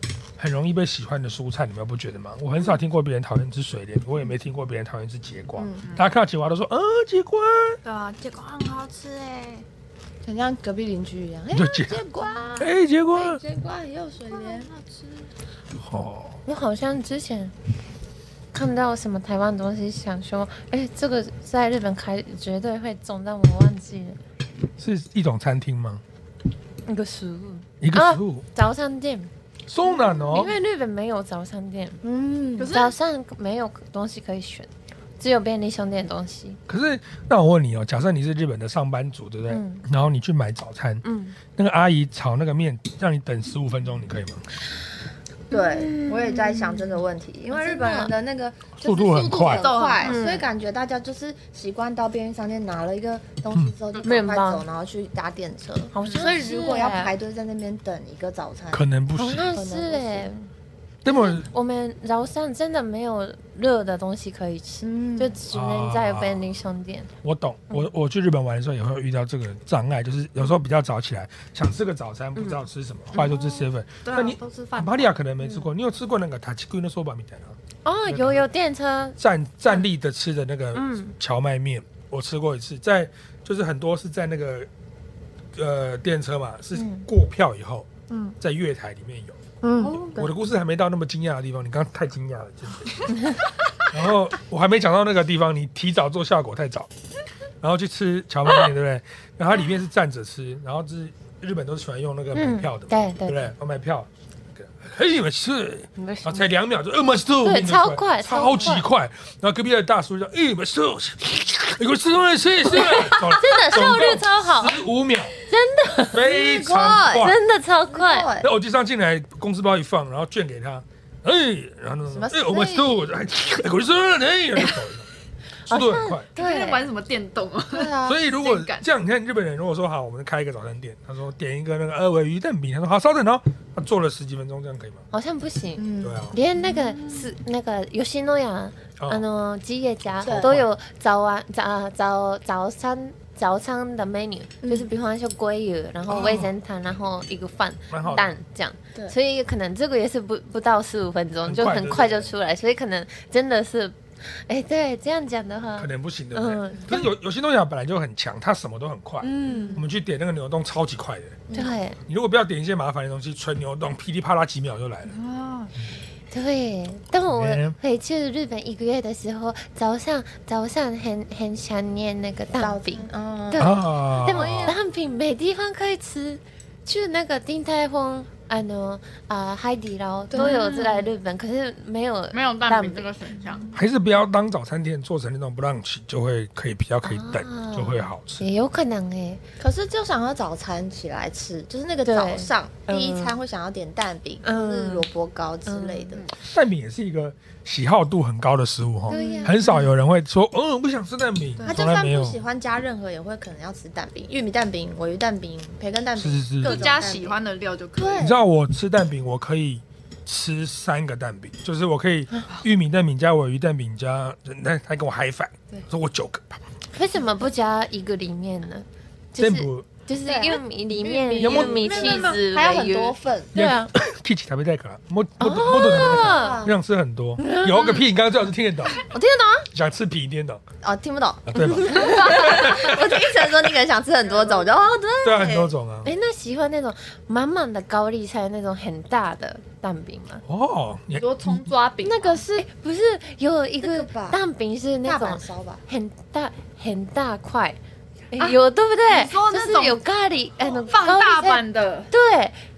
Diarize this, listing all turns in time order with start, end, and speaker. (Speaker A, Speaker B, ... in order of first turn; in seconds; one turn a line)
Speaker A: 0.4-7.8
Speaker B: 5.5-5.8
Speaker C: 7.8-9.7
Speaker B: 10.2-14.7
Speaker A: 11.5-12.0
Speaker C: 12.2-12.7
Speaker A: 12.6-13.4
Speaker C: 14.3-15.3
Speaker A: 15.8-16.4
Speaker D: 16.4-17.5
Speaker D: 18.5-24.2
Speaker A: 24.8-26.0
Speaker D: 26.9-29.3
Speaker A: 27.8-28.4
Speaker A: 29.7-30.6
Speaker D: 30.2-32.0
Speaker B: 32.0-32.7
Speaker C: 32.6-32.9
Speaker D: 32.7-36.6
Speaker A: 36.7-41.0
Speaker D: 39.5-39.8
Speaker D: 41.0-41.4
Speaker A: 41.5-44.4
Speaker B: 45.5-58.8
Speaker D: 45.5-48.1
Speaker A: 48.8-49.7
Speaker C: 49.4-50.2
Speaker D: 50.0-50.5
Speaker C: 53.9-54.2
Speaker D: 54.0-54.6
Speaker D: 55.9-57.1
Speaker C: 56.0-56.3
Speaker A: 58.7-59.5
Speaker D: 59.1-60.4
Speaker B: 59.4-60.5
Speaker A: 61.0-61.5
Speaker D: 61.0-67.1
Speaker B: 64.8-65.3
Speaker A: 65.5-66.5
Speaker A: 67.2-78.4
Speaker C: 73.2-73.5
Speaker C: 74.0-75.2
Speaker D: 77.8-79.2
Speaker A: 79.2-84.7
Speaker D: 80.7-81.1
Speaker A: 85.5-87.9
Speaker D: 86.7-87.0
Speaker B: 88.1-88.3
Speaker A: 88.4-93.1
Speaker B: 89.6-90.3
Speaker A: 93.8-96.9
Speaker A: 97.6-115.3
Speaker D: 102.3-103.5
Speaker D: 106.0-106.5
Speaker D: 107.4-108.8
Speaker D: 112.8-114.8
Speaker D: 115.5-116.2
Speaker A: 116.1-117.4
Speaker B: 116.2-117.3
Speaker D: 117.2-118.3
Speaker B: 117.9-118.5
Speaker A: 118.4-125.1
Speaker B: 122.1-123.0
Speaker A: 125.7-126.3
Speaker D: 125.7-126.5
Speaker C: 126.3-128.8
Speaker B: 126.4-126.8
Speaker B: 127.7-128.2
Speaker A: 128.0-135.0
Speaker D: 135.1-157.1
Speaker B: 135.8-136.2
Speaker A: 136.0-136.3
Speaker C: 136.6-137.3
Speaker B: 140.2-140.5
Speaker A: 140.3-140.6
Speaker B: 144.6-144.9
Speaker A: 146.1-146.5
Speaker A: 147.9-148.4
Speaker A: 151.4-152.3
Speaker A: 155.8-161.4
Speaker D: 159.2-159.8
Speaker B: 161.5-161.7
Speaker D: 161.5-162.0
Speaker A: 162.1-165.1
Speaker C: 165.1-165.7
Speaker D: 166.3-183.2
Speaker A: 167.3-167.8
Speaker B: 172.6-173.8
Speaker A: 173.6-174.8
Speaker B: 180.3-180.8
Speaker C: 180.3-181.0
Speaker C: 182.3-183.6
Speaker A: 183.7-188.4
Speaker D: 187.0-189.4
Speaker B: 189.6-196.2
Speaker D: 192.1-193.4
Speaker D: 194.4-195.1
Speaker D: 195.7-196.1
Speaker A: 196.4-202.4
Speaker D: 199.1-199.5
Speaker B: 199.1-199.8
Speaker B: 201.6-207.4
Speaker A: 206.2-206.9
Speaker C: 206.6-208.3
Speaker B: 208.0-208.4
Speaker A: 208.2-216.6
Speaker D: 216.9-223.9
Speaker A: 219.4-219.9
Speaker B: 220.2-223.5
Speaker A: 221.4-221.8
Speaker C: 221.4-222.5
Speaker A: 223.5-229.0
Speaker D: 225.4-226.6
Speaker B: 225.9-226.8
Speaker D: 227.4-228.0
Speaker D: 229.1-229.6
Speaker A: 229.7-230.6
Speaker B: 230.8-235.7
Speaker A: 231.5-233.1
Speaker D: 231.6-232.5
Speaker C: 232.1-232.6
Speaker A: 235.2-236.1
Speaker D: 236.0-240.4
Speaker A: 240.4-241.7
Speaker C: 241.1-242.6
Speaker D: 242.0-247.8
Speaker B: 243.8-244.4
Speaker B: 245.0-245.8
Speaker D: 248.3-252.6
Speaker C: 249.1-250.0
Speaker C: 250.9-252.1